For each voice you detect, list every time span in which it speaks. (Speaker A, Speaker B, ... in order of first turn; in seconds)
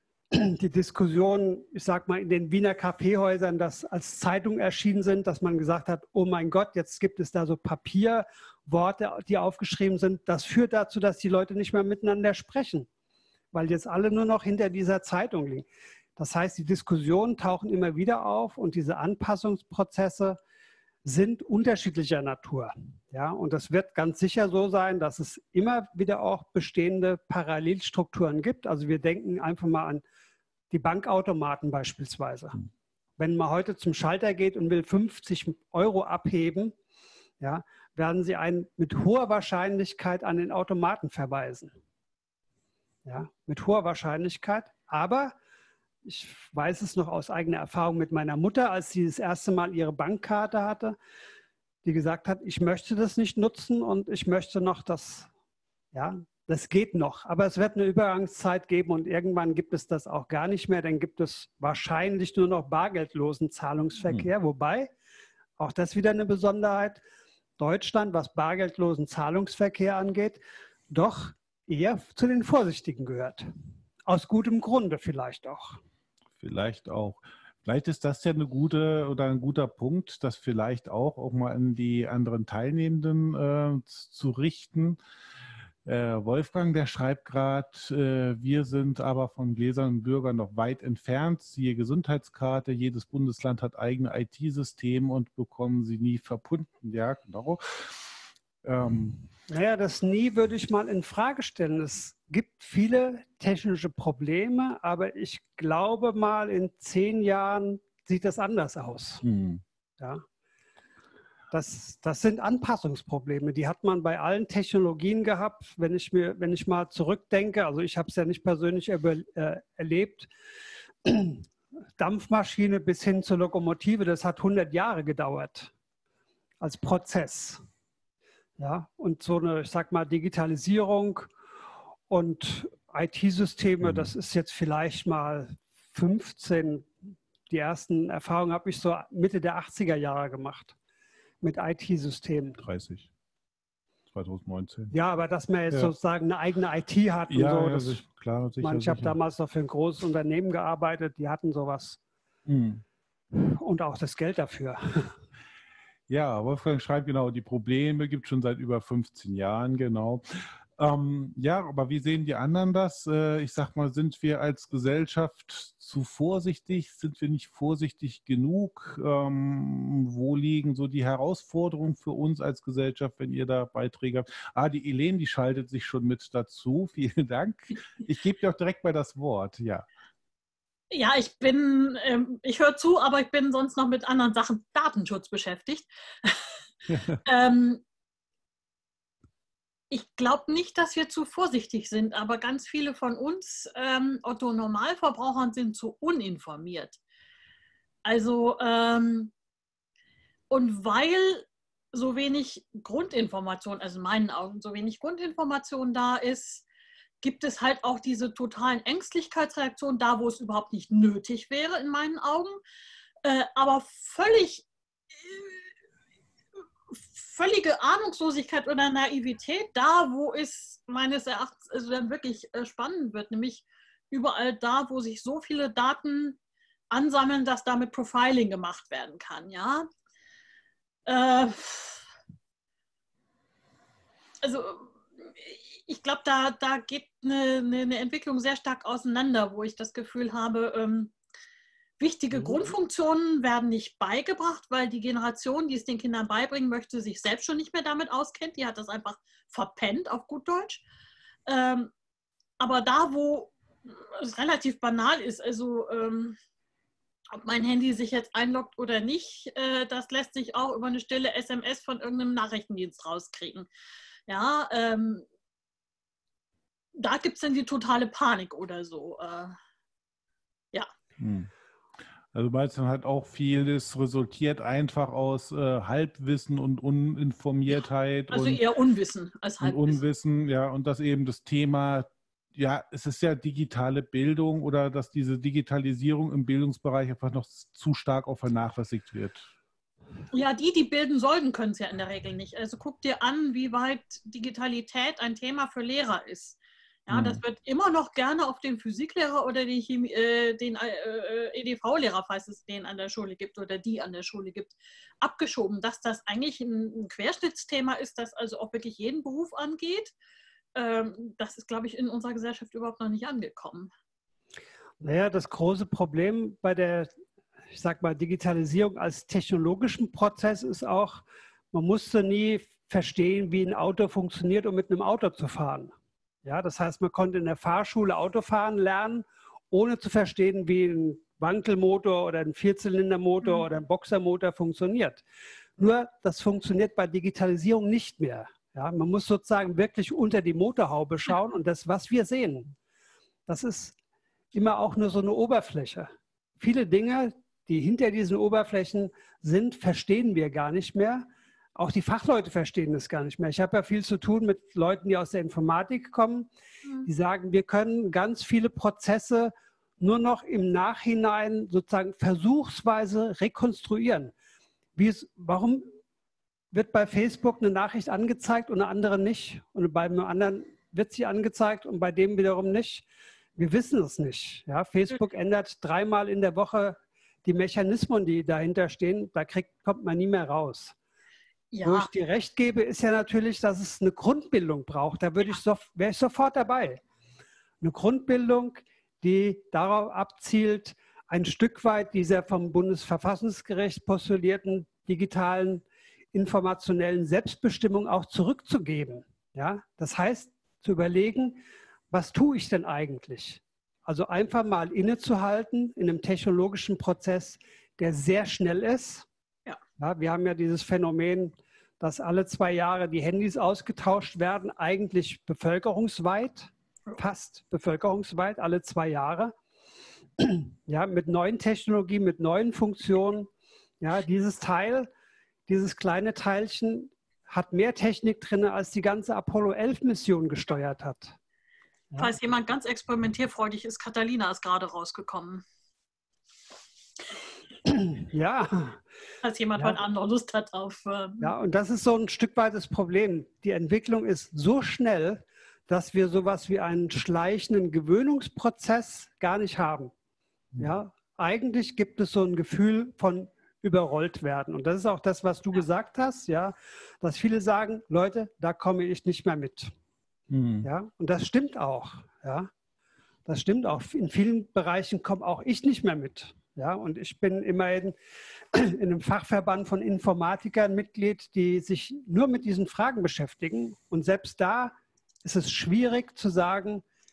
Speaker A: 0.3-12.9, 13.5-20.4, 21.0-30.0, 30.7-32.6, 33.2-36.7, 37.4-41.7, 43.0-45.4, 46.0-51.0, 51.8-55.3, 55.9-64.9, 65.6-67.0, 67.6-73.5, 74.1-75.8, 99.5-109.2, 110.0-110.2, 111.5-120.3, 121.0-125.7, 126.6-127.6, 128.6-131.3, 132.1-140.8, 141.4-142.6, 144.9-148.0, 148.6-152.0, 153.3-155.1, 315.0-317.1, 317.7-325.9, 326.4-335.2, 335.8-342.8, 343.5-343.9, 344.5-356.5, 357.1-364.3, 365.0-365.9, 366.7-380.9, 381.8-387.0, 387.8-409.3, 410.0-419.5, 420.4-423.5, 424.0-425.1, 425.7-431.4, 437.9-439.0, 441.4-450.1, 450.8-459.9, 460.8-462.7, 463.5-468.2, 468.7-477.0
Speaker B: 76.4-85.0, 85.8-98.0, 98.6-99.2, 109.2-109.6, 133.8-134.1, 142.6-143.1, 144.1-144.9, 147.3-149.2, 152.5-152.8, 156.1-179.9, 186.9-187.2, 242.4-242.7, 271.2-271.5, 272.3-278.6, 279.6-289.5, 297.1-297.4, 460.5-460.9
Speaker C: 180.9-186.5, 187.2-187.8, 189.9-197.0, 198.1-199.3, 200.5-206.7, 207.2-212.6, 213.2-214.7, 215.2-215.6, 216.9-226.4, 226.9-229.9, 231.1-232.0, 234.4-241.1, 242.0-250.8, 251.5-251.9, 252.6-256.4, 257.3-263.7, 264.3-265.2, 267.0-269.6, 278.3-280.0, 290.3-310.1, 310.8-313.9, 381.7-382.1, 432.2-435.6, 439.4-441.5